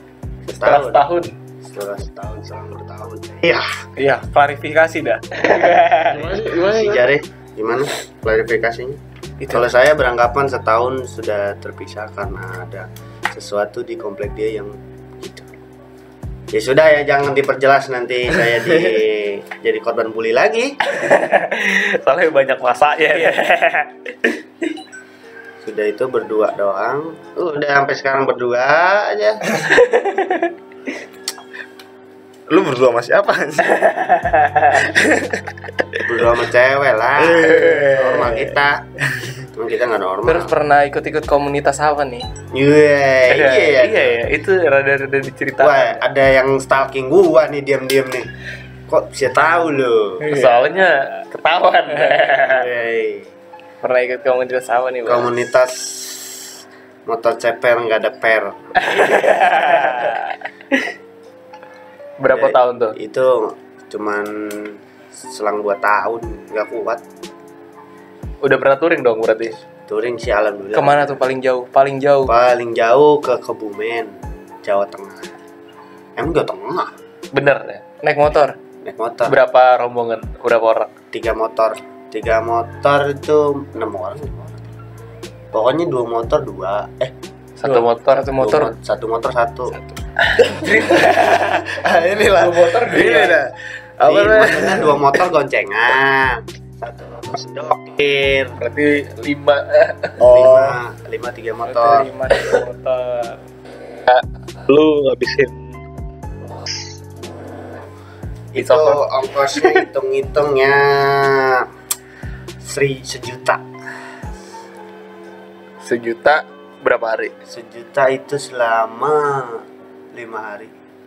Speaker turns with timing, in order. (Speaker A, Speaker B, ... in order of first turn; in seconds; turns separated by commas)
Speaker A: 0.5-1.0, Speaker B: 0.6-1.3, Speaker A: 1.6-3.7, Speaker C: 4.0-6.2, Speaker A: 6.1-15.5, Speaker D: 6.1-7.0, Speaker C: 9.4-9.7, Speaker A: 16.5-20.8, Speaker B: 20.9-24.3, Speaker A: 25.6-29.6, Speaker B: 29.8-30.5, Speaker D: 32.5-33.7, Speaker B: 33.8-34.9, Speaker A: 36.0-38.8, Speaker D: 37.2-38.4, Speaker A: 39.5-40.5, Speaker C: 40.2-42.3, Speaker A: 42.5-44.2, Speaker B: 43.3-46.0, Speaker A: 45.6-48.3, Speaker A: 48.9-50.3, Speaker B: 50.2-52.7, Speaker A: 52.4-53.3, Speaker C: 53.8-55.3, Speaker A: 55.0-56.5, Speaker A: 57.0-58.6, Speaker B: 58.8-60.0, Speaker C: 59.0-60.2, Speaker B: 62.2-62.9, Speaker A: 62.3-67.0, Speaker B: 68.4-69.6, Speaker A: 69.8-71.2, Speaker C: 70.7-72.3, Speaker A: 72.3-75.3, Speaker A: 76.2-76.9, Speaker B: 77.3-77.8, Speaker C: 78.0-78.5, Speaker A: 78.8-79.4, Speaker B: 79.2-80.9, Speaker A: 81.1-84.7, Speaker A: 85.5-87.1, Speaker B: 87.6-88.4, Speaker C: 87.6-88.7, Speaker A: 88.4-89.7, Speaker B: 90.2-91.8, Speaker D: 91.7-95.0, Speaker B: 92.3-93.4, Speaker A: 94.0-98.6, Speaker B: 98.6-100.2, Speaker D: 100.2-100.8, Speaker A: 100.2-102.1, Speaker C: 101.6-103.4, Speaker B: 104.1-105.8, Speaker A: 108.5-111.7, Speaker B: 108.5-109.0, Speaker A: 112.6-113.7, Speaker B: 115.8-117.3, Speaker A: 117.5-120.7